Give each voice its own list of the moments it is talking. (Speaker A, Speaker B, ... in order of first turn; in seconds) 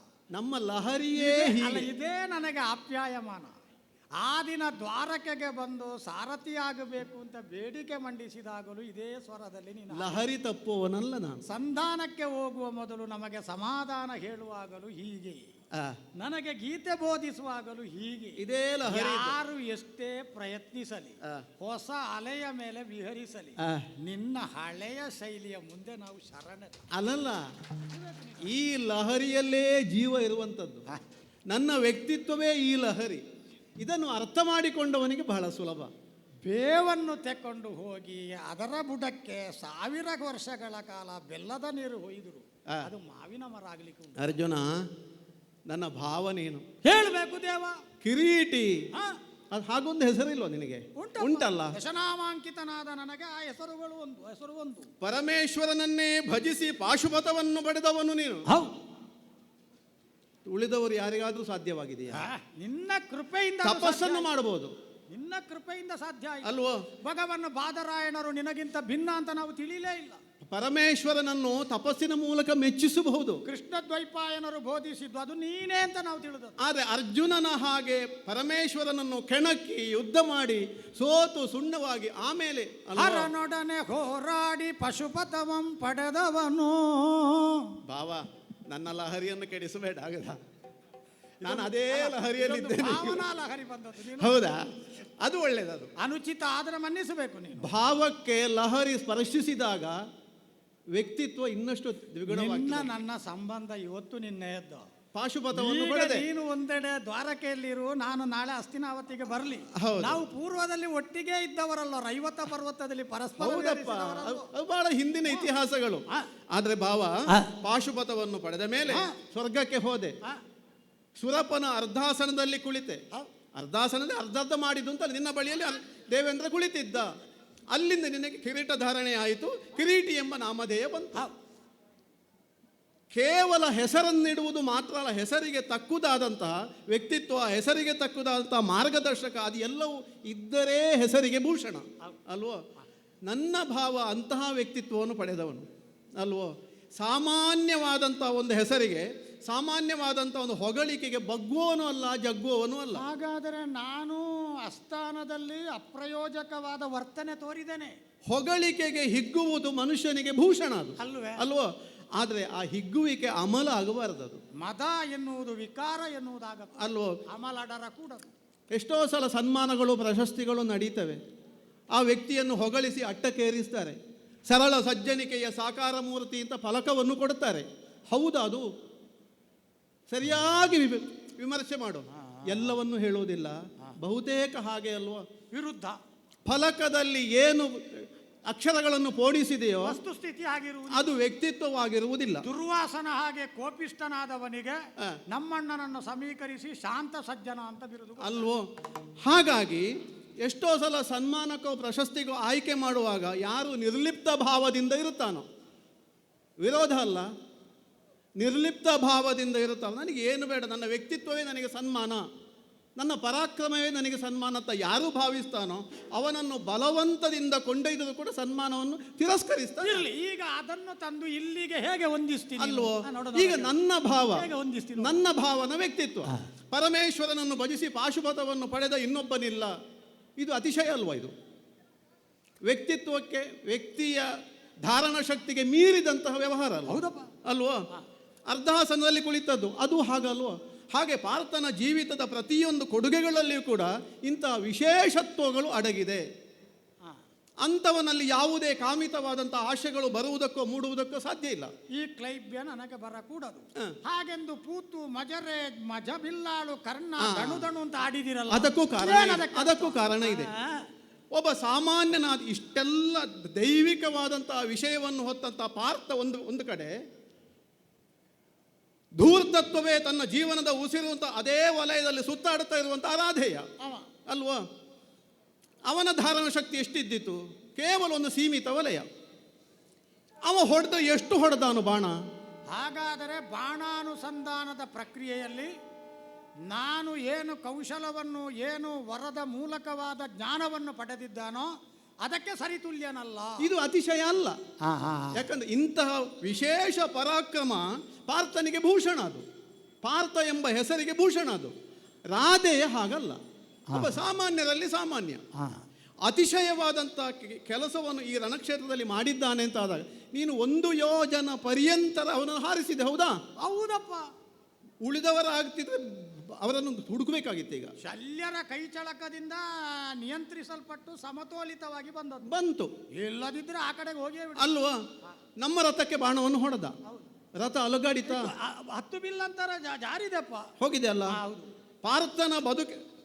Speaker A: 0.3-1.9, 9.9-11.4, 18.4-19.4, 27.0-27.4, 28.4-30.8, 31.5-33.2, 33.8-35.9, 44.2-44.7, 45.7-46.6, 48.0-48.8, 49.5-51.8, 55.0-58.4, 60.5-62.2, 63.6-64.7, 66.4-66.8, 70.4-73.4, 76.6-83.3, 87.9-90.4, 91.4-93.3, 94.2-94.6, 95.2-95.9, 97.6-100.0, 101.0-102.9, 105.1-106.3, 109.8-110.2, 113.4-120.2, 121.2-123.0, 123.5-127.1, 127.7-131.3, 133.1-142.6, 143.3-145.7, 146.2-153.0, 158.3-164.4, 166.8-167.1, 168.7-171.2, 172.0-174.0, 174.5-178.7, 180.1-185.2, 186.5-190.0, 190.9-192.4, 198.2-198.6, 199.2-199.9, 200.4-205.4, 206.6-207.3, 208.4-212.2, 213.0-220.0, 222.6-229.7, 230.4-231.3, 232.7-234.3, 234.8-237.8, 238.5-246.2, 247.6-251.7, 257.2-257.7, 258.5-260.5, 261.3-266.9, 269.2-273.7, 274.3-274.6, 275.9-279.1, 280.5-282.1, 293.6-294.6, 295.3-299.4, 300.0-301.7, 302.3-303.4, 303.9-305.4, 306.3-313.4, 315.0-317.9, 322.5-322.9, 324.6-325.0, 325.6-326.9, 327.6-328.5, 330.8-331.4, 332.0-332.9
Speaker B: 1.1-3.5, 4.2-10.2, 11.5-15.4, 16.2-26.9, 27.9-28.5, 36.5-44.3, 46.8-47.8, 51.0-54.9, 62.1-64.3, 65.1-66.5, 67.0-70.2, 73.5-76.6, 83.0-87.6, 91.4-94.4, 96.0-97.7, 102.3-104.8, 105.5-114.5, 153.0-157.9, 161.0-161.4, 164.6-166.8, 167.3-168.3, 182.2-182.7, 185.5-186.0, 189.8-191.1, 192.4-194.8, 195.3-198.5, 219.8-223.8, 224.3-225.2, 236.9-237.3, 251.9-260.9, 273.8-274.1, 282.7-285.7, 286.7-291.7, 292.2-293.7, 294.9-295.4, 303.9-304.2, 313.6-314.3, 318.0-322.5, 323.2-324.7, 328.3-330.7, 331.3-331.7